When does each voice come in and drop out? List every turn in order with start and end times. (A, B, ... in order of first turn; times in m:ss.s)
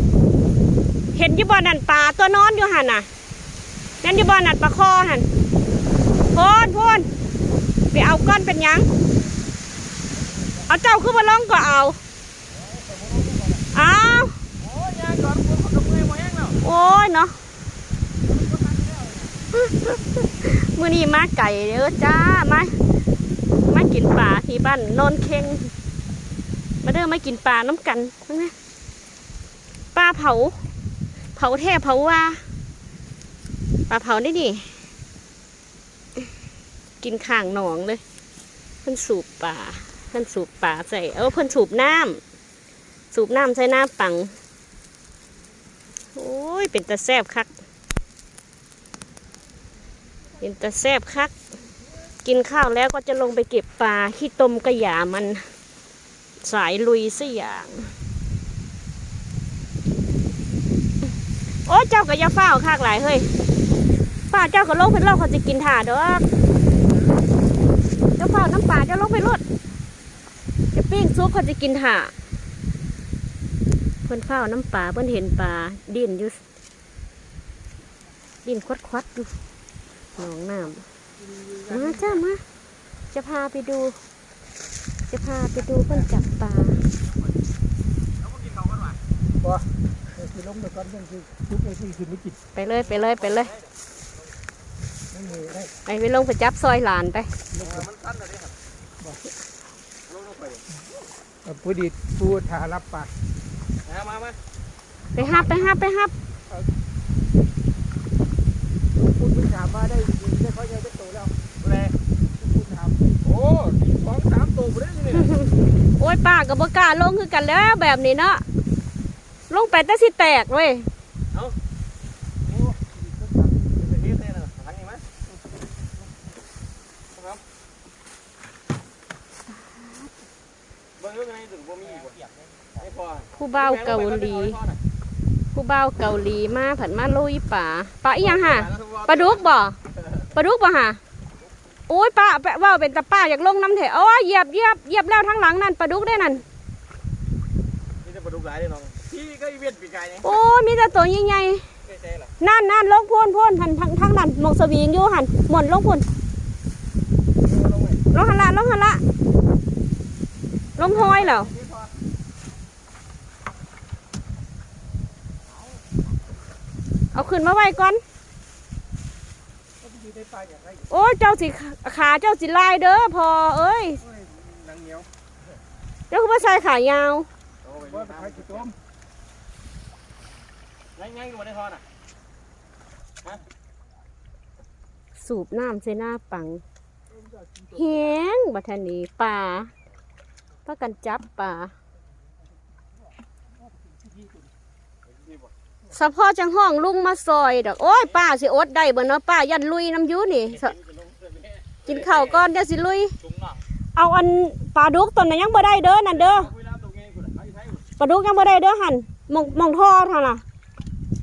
0:01.1-0:03.1 A
0:04.0-0:05.3 A
0:06.3-0:07.1 A
0:07.9-0:08.9 A
0:10.6-0:12.0 A
0:13.7-0:14.4 A
0:14.6-0:16.6 B
0:16.6-0:17.4 A
0:18.3-0:19.3 B
0:19.5-0:22.8 A
0:23.6-0:25.7 A
0:26.8-0:28.5 A
0:29.9-0:30.6 A
0:31.3-0:32.4 A
0:33.9-0:34.8 A
0:37.0-0:38.0 A
0:38.8-0:42.2 A
0:43.1-0:44.3 A
0:46.1-0:47.5 A
0:50.4-0:51.3 A
0:52.2-0:55.5 A
0:56.4-0:57.9 A
1:01.5-1:03.3 A
1:04.3-1:06.3 A
1:08.2-1:09.4 A
1:10.7-1:12.1 A
1:14.0-1:16.4 A
1:18.4-1:19.3 A
1:20.2-1:20.8 A
1:21.6-1:22.4 A
1:23.1-1:24.0 A
1:25.1-1:26.8 A
1:28.2-1:29.0 B
1:30.3-1:32.3 C
1:32.5-1:33.5 A
1:35.2-1:35.6 C
1:35.8-1:37.3 A
1:37.6-1:38.5 B
1:40.1-1:40.6 B
1:41.5-1:43.1 C
1:43.8-1:44.4 B
1:45.1-1:46.1 A
1:49.2-1:51.3 C
1:51.6-1:51.9 B
1:52.6-1:53.0 C
1:53.2-1:55.3 B
1:55.1-1:58.4 A
1:59.5-2:00.9 A
2:03.8-2:05.0 B
2:07.1-2:07.4 B
2:11.0-2:12.2 B
2:12.8-2:14.8 B
2:13.4-2:14.6 A
2:15.5-2:19.8 A
2:18.2-2:19.4 B
2:20.3-2:21.0 A
2:21.9-2:26.4 A
2:28.0-2:30.2 B
2:30.2-2:31.7 A
2:31.9-2:32.3 B
2:32.4-2:36.1 A
2:37.4-2:38.0 B
2:38.1-2:39.0 A
2:40.8-2:41.5 A
2:40.8-2:41.9 B
2:47.1-2:48.0 A
2:49.9-2:50.7 C
2:50.9-2:54.0 A
2:56.1-2:57.3 A
2:57.6-2:58.7 B
3:01.0-3:01.8 B
3:05.2-3:06.6 A
3:07.7-3:09.7 A
3:10.6-3:11.7 A
3:15.1-3:15.5 B
3:15.9-3:20.8 A
3:20.7-3:22.2 B
3:21.8-3:23.2 A
3:23.3-3:23.5 B
3:23.9-3:26.5 A
3:26.2-3:27.8 B
3:28.0-3:30.4 A